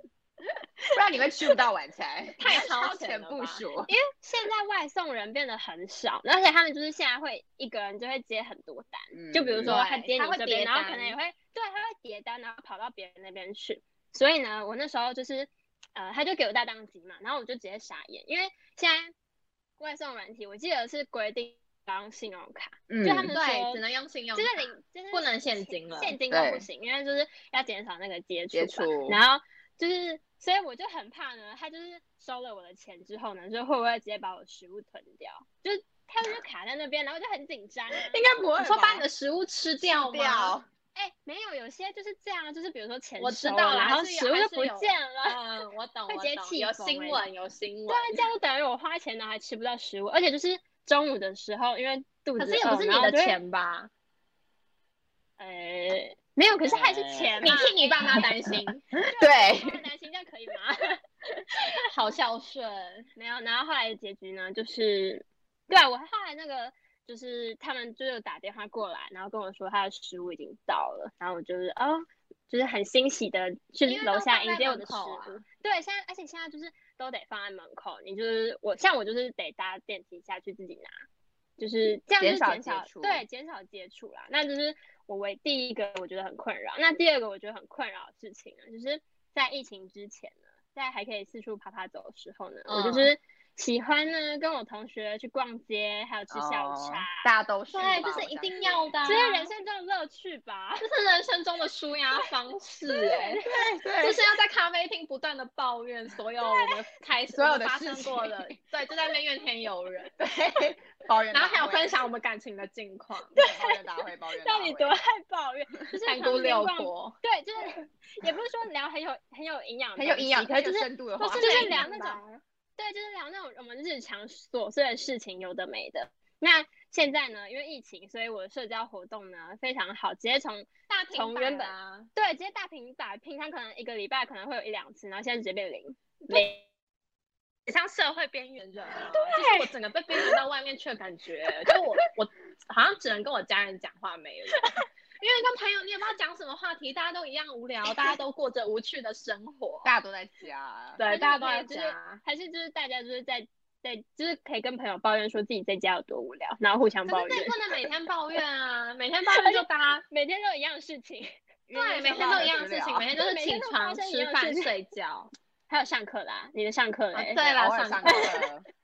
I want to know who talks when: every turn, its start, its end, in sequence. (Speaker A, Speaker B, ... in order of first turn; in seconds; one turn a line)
Speaker A: 0.9-3.9
Speaker B: 2.4-3.6
Speaker C: 3.9-19.1
Speaker A: 9.1-9.8
Speaker B: 9.7-11.2
Speaker C: 19.8-23.8
Speaker A: 22.9-23.4
Speaker B: 23.3-26.2
Speaker C: 24.4-38.2
Speaker A: 26.3-26.7
Speaker A: 28.5-29.2
Speaker A: 38.1-39.1
Speaker B: 38.2-40.5
Speaker A: 39.8-40.7
Speaker C: 41.0-45.4
Speaker B: 43.2-48.2
Speaker C: 46.1-47.2
Speaker C: 47.9-53.4
Speaker B: 52.4-53.9
Speaker C: 55.4-58.3
Speaker A: 56.4-57.5
Speaker B: 57.4-58.8
Speaker A: 58.2-59.8
Speaker C: 59.0-61.0
Speaker B: 61.8-63.1
Speaker C: 63.2-80.9
Speaker B: 73.8-75.4
Speaker C: 81.6-97.3
Speaker A: 82.2-83.2
Speaker B: 92.7-93.1
Speaker A: 96.3-99.2
Speaker B: 97.7-99.5
Speaker C: 99.0-100.9
Speaker B: 100.8-103.4
Speaker C: 102.9-103.7
Speaker A: 103.5-104.2
Speaker B: 104.0-110.1
Speaker A: 107.3-108.6
Speaker A: 110.2-112.0
Speaker B: 111.3-113.3
Speaker C: 113.3-122.2
Speaker A: 113.3-115.0
Speaker B: 116.1-117.2
Speaker A: 120.0-121.9
Speaker B: 121.3-122.4
Speaker C: 122.8-136.6
Speaker B: 130.9-132.1
Speaker B: 137.7-144.7
Speaker C: 139.1-140.3
Speaker C: 144.6-144.8
Speaker B: 145.2-149.9
Speaker A: 149.8-151.0
Speaker B: 151.0-152.2
Speaker C: 151.0-157.7
Speaker B: 157.1-160.0
Speaker C: 159.3-161.3
Speaker A: 161.7-163.1
Speaker B: 161.7-165.3
Speaker C: 162.0-162.7
Speaker C: 163.2-164.7
Speaker C: 165.7-167.4
Speaker B: 167.1-168.4
Speaker A: 167.4-168.7